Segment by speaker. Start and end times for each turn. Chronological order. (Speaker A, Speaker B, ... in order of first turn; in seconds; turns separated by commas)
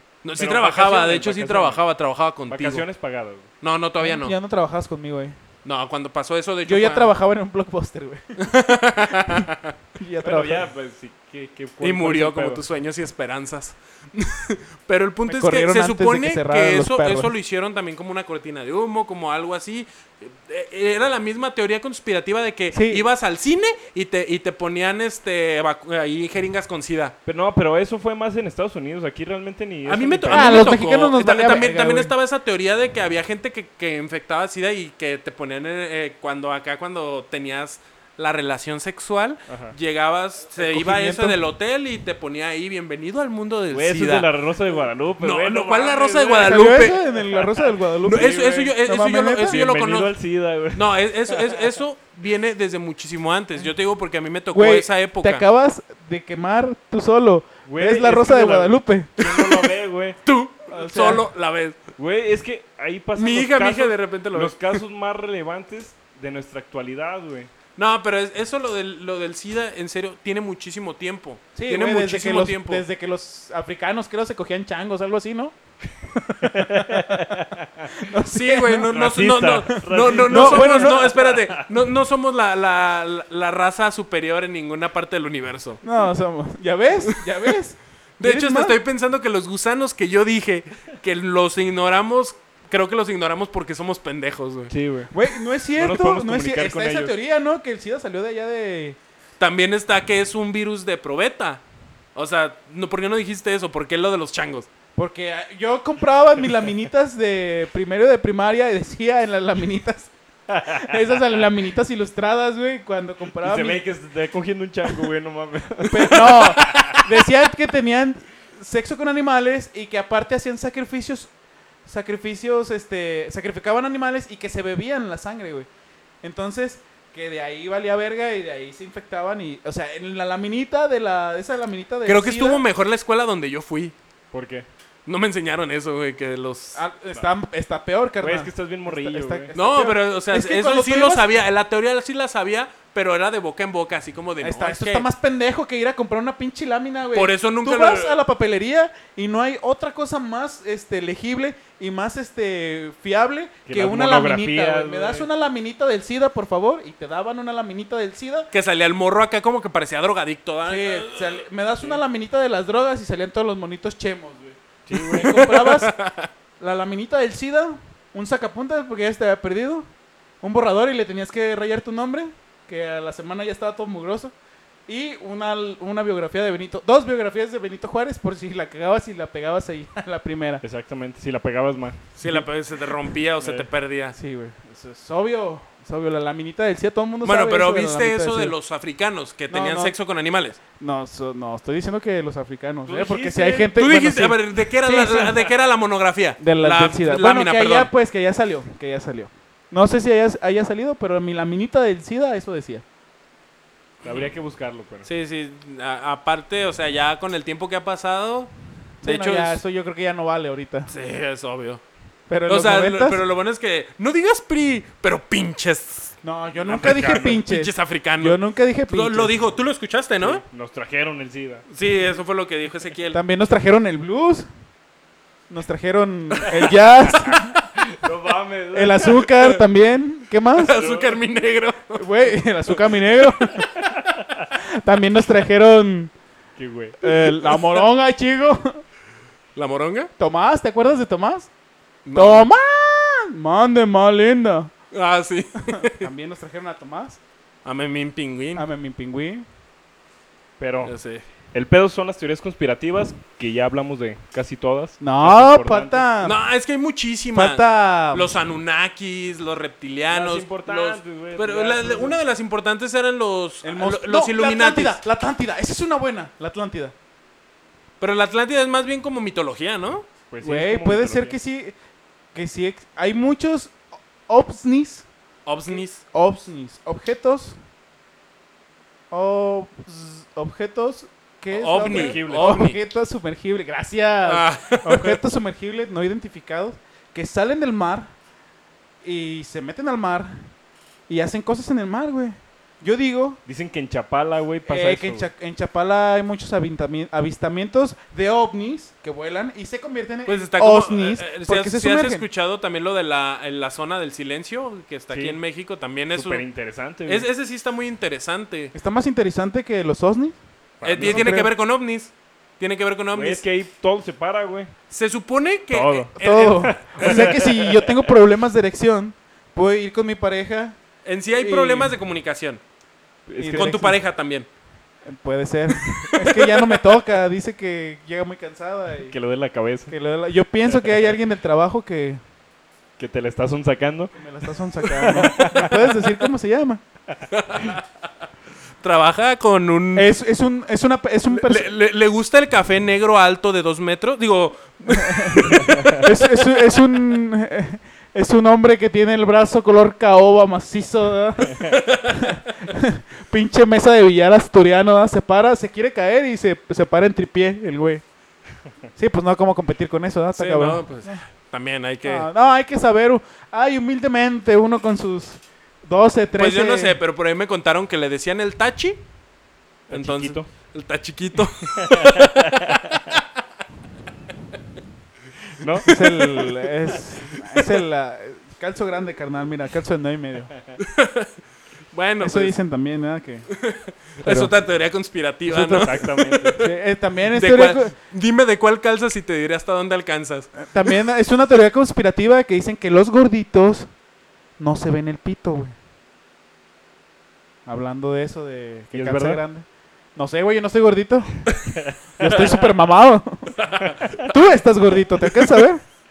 Speaker A: 0.2-2.8, Speaker B: 0.3-1.8, Speaker B: 2.5-3.5, Speaker A: 3.6-4.3, Speaker C: 4.0-5.3, Speaker A: 5.6-7.1, Speaker C: 6.6-8.4, Speaker A: 8.4-9.7, Speaker C: 10.0-10.7, Speaker B: 10.2-12.6, Speaker A: 11.8-27.1, Speaker C: 15.3-17.3, Speaker C: 22.7-23.1, Speaker B: 27.2-30.7, Speaker A: 29.9-44.3, Speaker C: 30.3-32.1, Speaker B: 39.5-39.7, Speaker C: 40.6-41.4, Speaker B: 43.7-46.8, Speaker A: 45.2-47.0, Speaker C: 46.4-49.6, Speaker A: 48.0-50.1, Speaker B: 49.4-51.7, Speaker A: 50.7-55.4, Speaker C: 54.5-59.1, Speaker B: 57.6-60.2, Speaker A: 59.2-59.7, Speaker A: 60.2-61.8, Speaker C: 60.7-61.2, Speaker B: 62.0-67.5, Speaker A: 63.1-64.8, Speaker A: 67.8-72.8, Speaker C: 71.5-75.5, Speaker C: 76.1-77.4, Speaker B: 76.4-77.9, Speaker C: 78.0-78.9, Speaker A: 78.3-85.8, Speaker B: 78.9-81.7, Speaker C: 80.2-81.1, Speaker C: 85.8-88.8, Speaker A: 87.1-87.5, Speaker A: 88.2-94.7, Speaker B: 94.7-95.1, Speaker C: 95.1-99.0, Speaker B: 95.8-97.1, Speaker A: 99.4-101.6, Speaker A: 102.1-104.7, Speaker C: 104.9-113.8, Speaker B: 110.5-110.9, Speaker B: 113.4-116.9, Speaker C: 115.9-121.3, Speaker A: 116.1-117.0, Speaker C: 121.8-125.7, Speaker C: 126.2-132.6, Speaker A: 132.1-133.9, Speaker B: 134.3-134.7, Speaker A: 135.1-136.8, Speaker C: 136.7-141.3, Speaker B: 138.2-139.5, Speaker A: 139.5-145.1, Speaker C: 144.4-158.5, Speaker A: 147.1-148.2, Speaker B: 153.7-155.3, Speaker A: 158.5-161.4, Speaker C: 160.6-165.9, Speaker B: 164.9-165.3, Speaker A: 165.0-166.3, Speaker C: 166.6-169.9, Speaker C: 170.4-174.3, Speaker C: 174.9-180.6, Speaker B: 180.6-182.0, Speaker A: 182.2-184.1, Speaker B: 183.4-183.7, Speaker C: 184.1-188.5, Speaker A: 187.2-190.6, Speaker C: 189.5-189.9, Speaker C: 190.8-195.4, Speaker B: 192.9-193.4, Speaker A: 193.3-197.9, Speaker C: 196.4-202.8, Speaker B: 204.0-205.1, Speaker A: 205.0-208.5, Speaker C: 209.0-210.9, Speaker A: 209.0-209.6, Speaker A: 210.9-211.8, Speaker C: 212.3-213.2, Speaker A: 212.5-216.1, Speaker C: 216.2-219.3, Speaker B: 216.6-217.4, Speaker A: 216.8-220.4, Speaker B: 220.2-221.6, Speaker A: 221.7-223.2, Speaker C: 223.1-224.5, Speaker C: 225.5-227.6, Speaker B: 227.8-229.2, Speaker C: 228.7-230.8, Speaker A: 229.1-229.5, Speaker A: 230.5-232.1, Speaker B: 230.7-231.2, Speaker C: 231.9-233.7, Speaker A: 233.4-234.0, Speaker C: 234.6-236.1, Speaker B: 236.6-237.0, Speaker C: 237.0-238.8, Speaker A: 237.1-237.7, Speaker A: 239.6-240.1, Speaker C: 240.2-241.5, Speaker A: 242.1-242.5, Speaker C: 242.1-244.7, Speaker A: 244.9-246.1, Speaker C: 245.7-247.2, Speaker A: 247.6-248.6, Speaker C: 248.6-249.4, Speaker B: 250.6-250.9, Speaker A: 250.8-251.2, Speaker B: 251.5-256.1, Speaker C: 255.0-256.4, Speaker A: 256.2-265.0, Speaker C: 257.3-258.4, Speaker B: 260.1-262.2, Speaker C: 263.6-266.9, Speaker A: 268.0-270.1, Speaker B: 270.3-271.4, Speaker C: 270.4-271.8, Speaker C: 272.3-275.1, Speaker A: 275.4-276.0, Speaker C: 276.1-277.6, Speaker C: 279.1-288.1, Speaker A: 281.5-282.8, Speaker B: 281.8-282.6, Speaker A: 284.2-285.2, Speaker C: 289.0-290.3, Speaker C: 291.1-293.4, Speaker B: 293.4-295.3, Speaker C: 294.7-302.2, Speaker A: 300.3-306.4, Speaker B: 305.1-305.4, Speaker B: 306.1-307.2, Speaker A: 307.1-308.7, Speaker C: 308.7-310.4, Speaker B: 310.8-311.3, Speaker A: 310.8-313.4, Speaker C: 311.0-311.5, Speaker B: 313.1-314.7, Speaker A: 314.9-317.2, Speaker B: 315.7-318.1, Speaker C: 316.2-320.8, Speaker A: 321.0-322.6, Speaker C: 321.3-322.0, Speaker B: 323.3-323.9, Speaker C: 323.4-324.0, Speaker A: 323.5-324.5, Speaker C: 325.0-329.1, Speaker B: 325.8-326.1, Speaker B: 329.1-329.9, Speaker C: 329.9-332.2, Speaker B: 333.0-334.1, Speaker C: 334.2-336.8, Speaker B: 334.9-335.7, Speaker A: 337.3-337.8, Speaker A: 338.8-340.1, Speaker C: 339.9-341.7, Speaker A: 341.3-346.1, Speaker C: 344.9-358.0, Speaker B: 345.6-346.0, Speaker A: 351.7-352.3, Speaker C: 358.9-361.2, Speaker A: 360.3-362.3, Speaker C: 362.0-367.0, Speaker A: 366.4-369.0, Speaker B: 369.9-370.5, Speaker A: 369.9-373.2, Speaker B: 371.6-373.0, Speaker B: 375.6-375.9, Speaker A: 375.8-376.4, Speaker C: 375.9-380.5, Speaker A: 380.8-381.3, Speaker A: 381.9-382.5, Speaker C: 382.2-383.5, Speaker A: 383.5-386.7, Speaker C: 384.2-384.5, Speaker C: 385.5-385.9, Speaker B: 385.7-386.6, Speaker C: 386.6-387.9, Speaker A: 387.3-390.9, Speaker C: 390.6-393.9, Speaker C: 394.6-395.8, Speaker C: 397.6-399.6, Speaker B: 398.9-399.4, Speaker C: 400.1-401.5, Speaker B: 401.7-402.4, Speaker C: 402.2-403.6, Speaker A: 403.6-404.0, Speaker B: 403.8-404.2, Speaker C: 404.2-405.8, Speaker A: 405.3-405.6